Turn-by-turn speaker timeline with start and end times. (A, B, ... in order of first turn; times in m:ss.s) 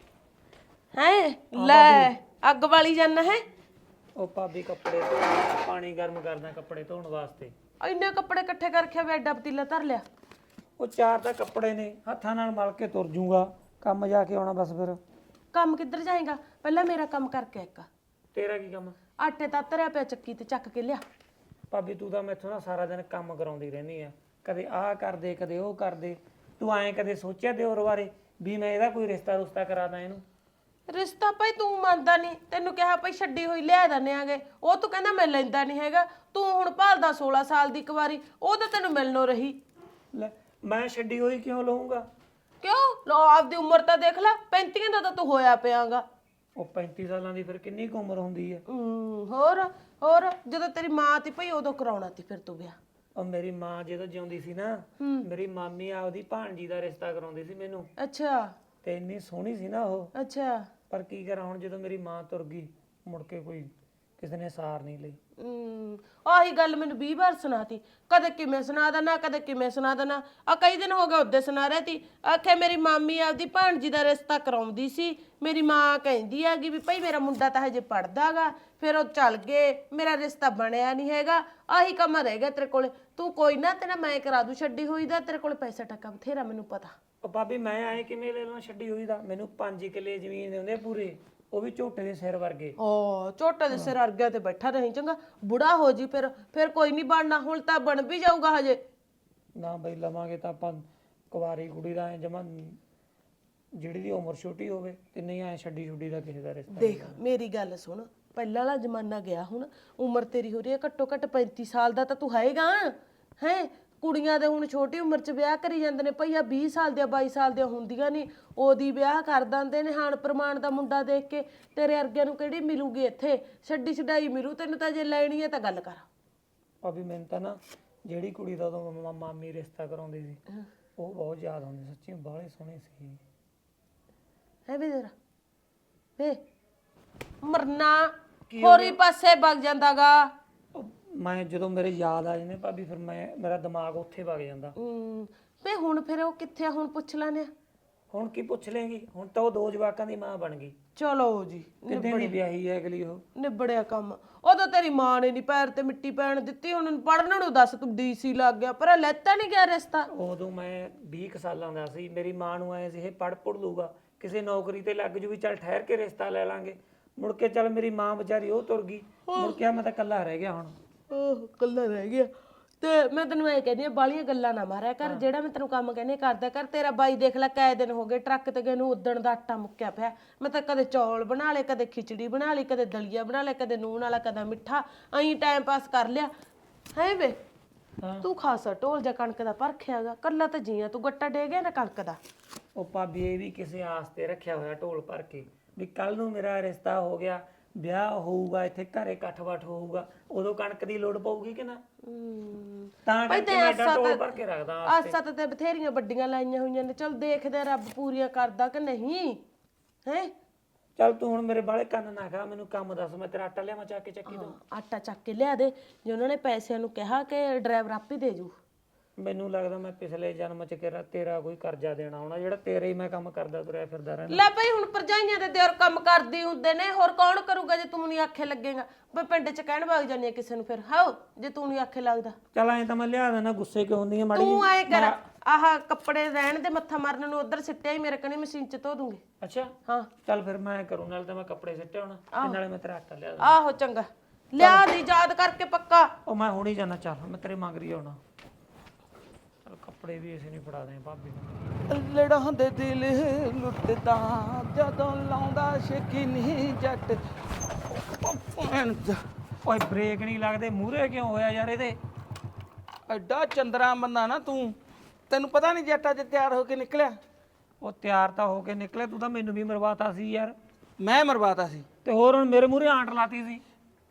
0:00.9-0:03.4 A
0:01.6-0:02.1 B
0:04.2-0:07.5 B
0:07.8-0:10.0 A
0:10.8-0:15.0 B
0:15.5-0:17.9 A
0:18.3-0:19.0 B
0:19.2-0:21.0 A
0:21.7-0:30.2 B
0:30.9-0:39.6 A
0:40.1-0:42.1 B
0:42.6-0:46.0 A
0:46.6-0:48.6 B
0:48.7-0:52.8 A
0:53.2-0:57.9 B
0:55.0-0:55.3 A
0:58.0-0:58.5 A
0:58.8-1:00.1 B
1:00.1-1:00.7 A
1:00.9-1:05.2 B
1:05.4-1:26.9 A
1:27.2-1:32.8 B
1:32.8-1:38.8 A
1:33.7-1:34.0 B
1:39.6-1:42.8 B
1:43.8-1:47.2 B
1:46.7-2:06.0 A
2:06.8-2:10.4 B
2:11.0-2:13.2 B
2:14.7-2:15.1 A
2:17.4-2:20.3 A
2:18.5-2:19.0 B
2:20.7-2:24.8 B
2:24.8-2:27.5 A
2:28.1-2:30.8 B
2:31.0-2:32.4 A
2:31.9-2:33.2 B
2:33.4-2:40.1 A
2:40.1-2:50.8 B
2:49.3-2:49.6 A
2:51.1-3:06.3 A
3:06.9-3:07.4 A
3:08.0-3:08.3 B
3:08.2-3:12.2 A
3:12.8-3:21.8 B
3:22.0-3:24.3 A
3:23.0-3:25.2 B
3:24.8-3:29.4 A
3:30.0-3:30.3 A
3:31.0-3:34.6 B
3:34.2-3:38.5 A
3:39.2-3:44.4 B
3:44.3-3:52.4 A
3:52.5-3:55.2 B
3:54.3-3:59.2 A
3:59.4-3:59.7 B
4:00.2-4:03.6 B
4:02.3-4:02.6 A
4:03.4-4:06.1 A
4:04.6-4:04.9 B
4:06.2-4:08.2 B
4:09.6-4:11.6 B
4:11.9-4:17.2 C
4:17.9-4:19.2 C
4:19.6-4:22.0 B
4:23.1-4:24.8 C
4:25.3-4:27.2 C
4:27.8-4:30.6 B
4:31.0-4:31.9 C
4:32.0-4:33.6 B